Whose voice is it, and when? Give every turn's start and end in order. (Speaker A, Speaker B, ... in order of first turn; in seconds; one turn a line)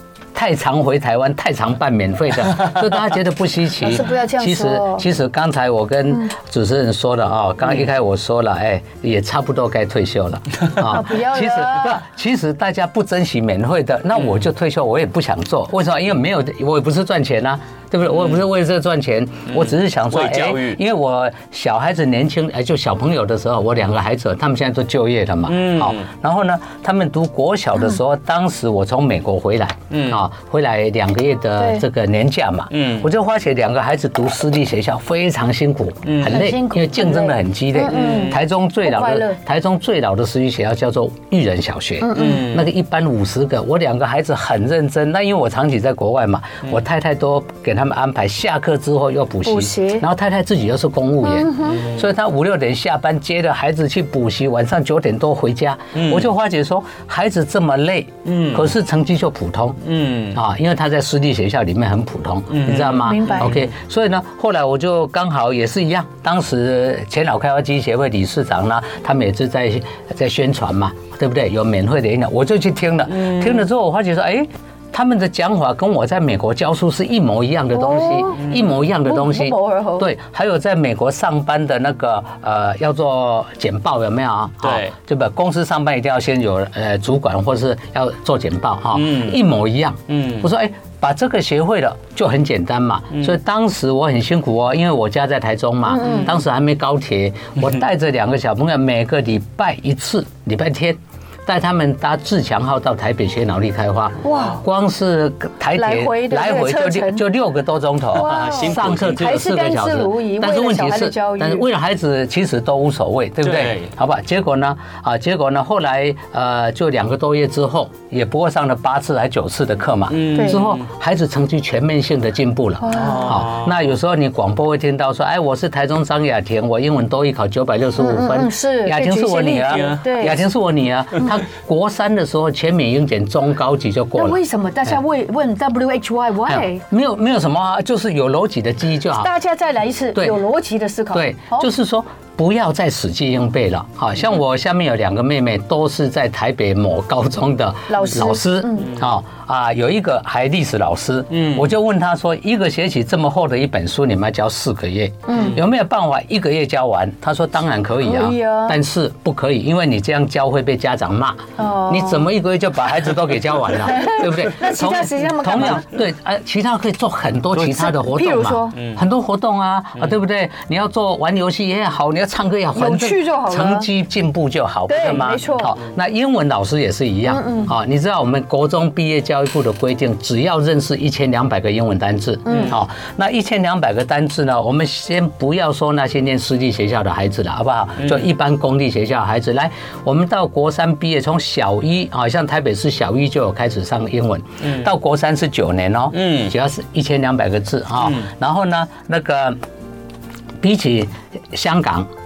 Speaker A: 0.3-59.8
Speaker B: 3.8-5.0
Speaker B: 10.8-11.9
Speaker C: 18.1-18.4
Speaker C: 19.5-20.8
Speaker C: 25.4-26.1
Speaker C: 29.9-30.2
Speaker B: 31.6-31.8
Speaker C: 32.7-33.1
Speaker C: 36.0-36.5
Speaker B: 36.3-39.4
Speaker C: 37.9-38.4
Speaker B: 42.0-42.5
Speaker C: 42.1-42.7
Speaker B: 49.4-50.0
Speaker B: 51.2-51.8
Speaker C: 55.9-56.3
Speaker C: 58.2-58.7
Speaker C: 59.8-60.4
Speaker A: 60.3-134.4
Speaker C: 62.5-63.7
Speaker B: 63.0-63.5
Speaker C: 73.1-73.6
Speaker B: 77.7-80.1
Speaker C: 78.4-78.7
Speaker C: 84.6-84.9
Speaker C: 88.9-89.4
Speaker C: 90.1-90.5
Speaker B: 95.8-96.3
Speaker B: 104.2-104.6
Speaker B: 105.8-107.2
Speaker B: 108.1-111.7
Speaker C: 108.2-109.4
Speaker C: 113.4-113.9
Speaker C: 120.1-120.9
Speaker B: 120.3-120.6
Speaker B: 122.8-123.4
Speaker C: 122.9-123.8
Speaker B: 128.0-130.4
Speaker C: 129.7-130.0
Speaker B: 134.2-136.8
Speaker A: 136.4-139.3
Speaker B: 139.2-141.7
Speaker A: 141.1-199.6
Speaker B: 147.9-148.9
Speaker C: 151.3-151.7
Speaker B: 155.3-155.6
Speaker B: 158.0-158.8
Speaker B: 161.6-162.3
Speaker B: 163.8-165.9
Speaker C: 167.6-167.9
Speaker B: 167.8-168.7
Speaker C: 168.7-169.0
Speaker B: 172.7-173.9
Speaker B: 174.9-175.8
Speaker B: 177.2-177.7
Speaker B: 182.4-182.8
Speaker C: 188.0-188.3
Speaker C: 194.6-194.9
Speaker C: 196.1-196.5
Speaker C: 198.0-198.3
Speaker A: 200.6-202.1